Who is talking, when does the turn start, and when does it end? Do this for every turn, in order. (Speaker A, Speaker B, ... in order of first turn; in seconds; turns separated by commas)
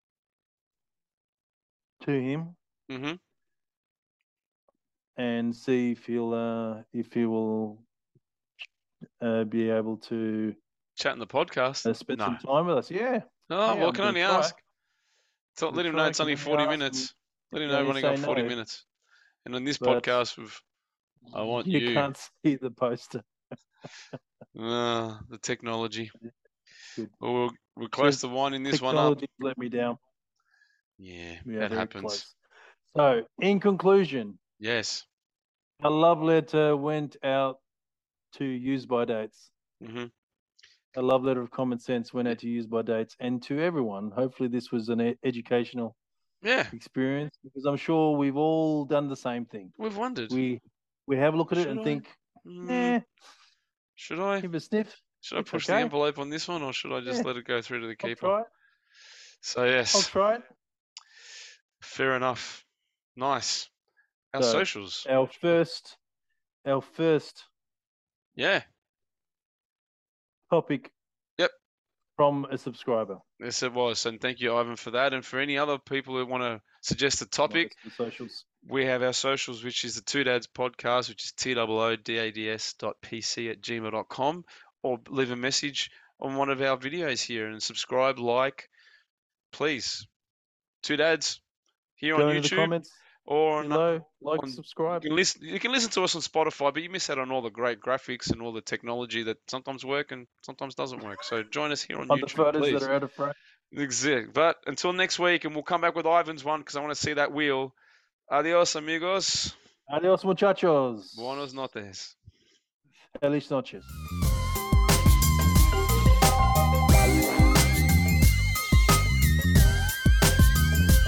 Speaker A: 2.0-2.5, Speaker B: 2.9-3.2, Speaker A: 5.2-7.8, Speaker A: 9.2-10.6, Speaker B: 10.9-12.4, Speaker A: 11.8-14.6, Speaker B: 13.5-14.6, Speaker B: 15.5-18.8, Speaker A: 15.7-17.1, Speaker A: 17.6-18.6, Speaker B: 19.4-20.6, Speaker A: 19.8-20.1, Speaker B: 21.3-22.1, Speaker A: 21.4-23.2, Speaker B: 24.5-26.1, Speaker B: 27.2-29.2, Speaker A: 28.0-30.0, Speaker B: 31.0-32.2, Speaker A: 31.4-32.3, Speaker A: 32.9-34.4, Speaker B: 34.6-35.0, Speaker A: 35.8-37.6, Speaker A: 38.3-39.5, Speaker B: 39.8-40.1, Speaker A: 40.9-46.0, Speaker B: 46.4-46.7, Speaker A: 46.7-49.7, Speaker B: 49.8-50.4, Speaker A: 50.3-53.0, Speaker B: 51.5-53.0, Speaker B: 54.0-54.5, Speaker A: 54.4-55.9, Speaker B: 55.2-58.3, Speaker A: 58.0-58.5, Speaker B: 59.4-60.1, Speaker A: 59.9-60.4, Speaker B: 61.8-62.6, Speaker B: 63.1-63.7, Speaker B: 64.3-65.1, Speaker A: 64.4-66.0, Speaker A: 66.6-67.5, Speaker B: 68.3-68.6, Speaker A: 70.5-70.9, Speaker A: 72.2-73.2, Speaker B: 73.4-77.7, Speaker A: 77.5-78.4, Speaker B: 78.6-88.7, Speaker B: 89.5-90.1, Speaker B: 90.8-91.4, Speaker B: 92.0-92.7, Speaker A: 92.1-93.0, Speaker B: 93.2-93.8, Speaker A: 93.6-95.1, Speaker B: 94.4-102.9, Speaker A: 102.1-103.3, Speaker B: 103.7-107.7, Speaker B: 108.3-109.5, Speaker A: 109.9-111.5, Speaker B: 111.1-112.1, Speaker A: 113.2-113.9